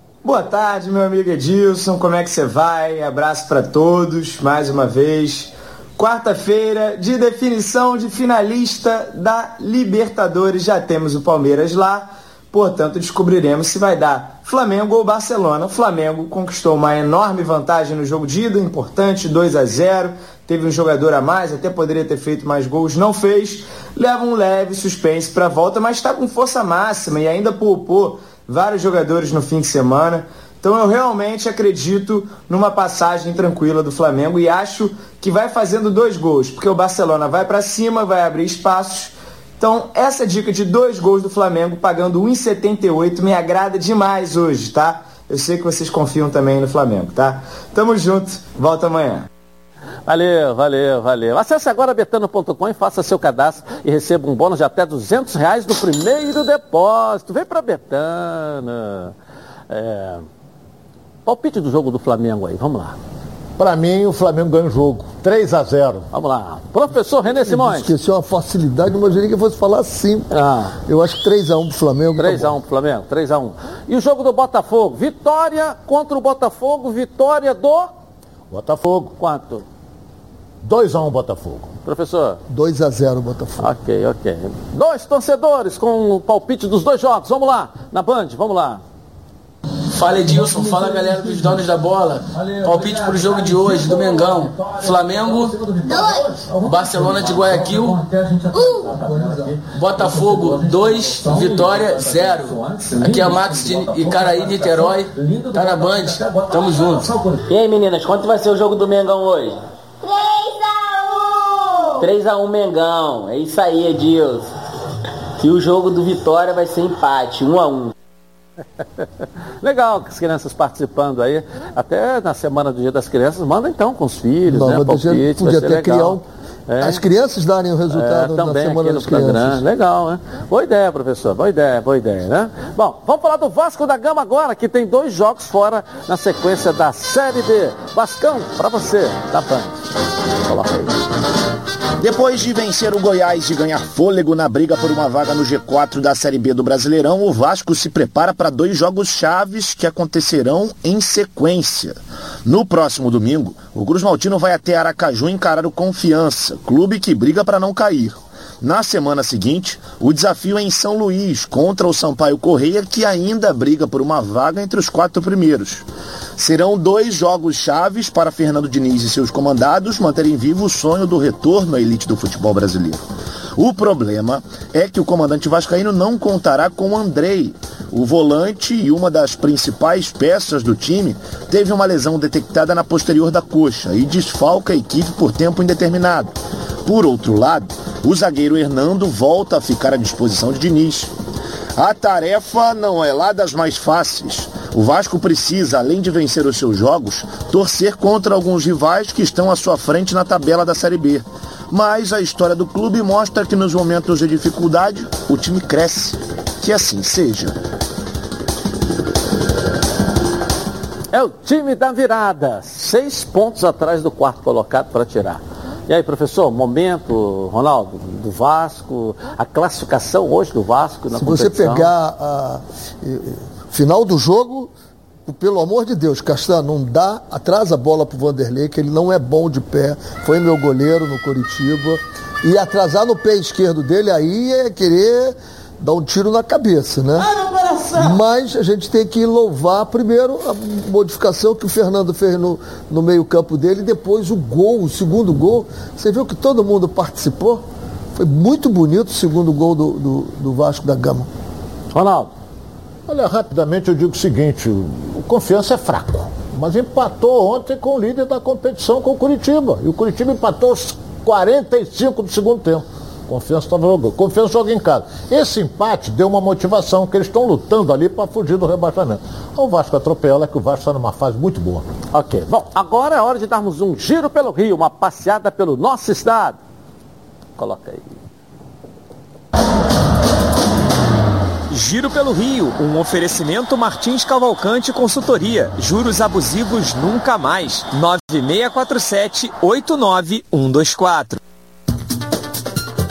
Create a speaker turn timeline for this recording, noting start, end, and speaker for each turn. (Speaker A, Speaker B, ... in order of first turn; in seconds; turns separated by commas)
Speaker A: 0.2-49.3, Speaker B: 50.1-59.1, Speaker B: 59.7-60.3, Speaker B: 61.3-63.0, Speaker C: 63.6-66.1, Speaker B: 66.1-67.9, Speaker D: 67.4-70.3, Speaker B: 70.3-70.8, Speaker D: 70.8-72.6, Speaker B: 72.2-77.9, Speaker C: 78.5-79.1, Speaker B: 79.2-79.6, Speaker C: 80.6-81.7, Speaker B: 81.8-82.4, Speaker D: 82.5-83.7, Speaker B: 83.6-88.8, Speaker E: 89.9-95.7, Speaker E: 96.6-98.1, Speaker E: 99.6-107.2, Speaker F: 107.5-109.6, Speaker F: 112.0-114.5, Speaker F: 115.4-117.9, Speaker B: 119.6-127.0, Speaker D: 124.5-126.2, Speaker D: 126.8-129.6, Speaker B: 127.9-139.8, Speaker B: 140.4-140.9, Speaker G: 142.0-165.8, Speaker G: 166.4-173.0, Speaker G: 173.6-186.3, Speaker G: 186.8-191.1, Speaker G: 191.8-207.6, Speaker B: 211.1-221.9, Speaker D: 221.2-224.7, Speaker D: 225.3-237.3, Speaker D: 237.9-247.6, Speaker D: 248.2-251.3, Speaker B: 251.9-252.3, Speaker C: 253.1-271.9, Speaker B: 272.1-276.6, Speaker B: 277.6-278.1, Speaker H: 281.7-291.4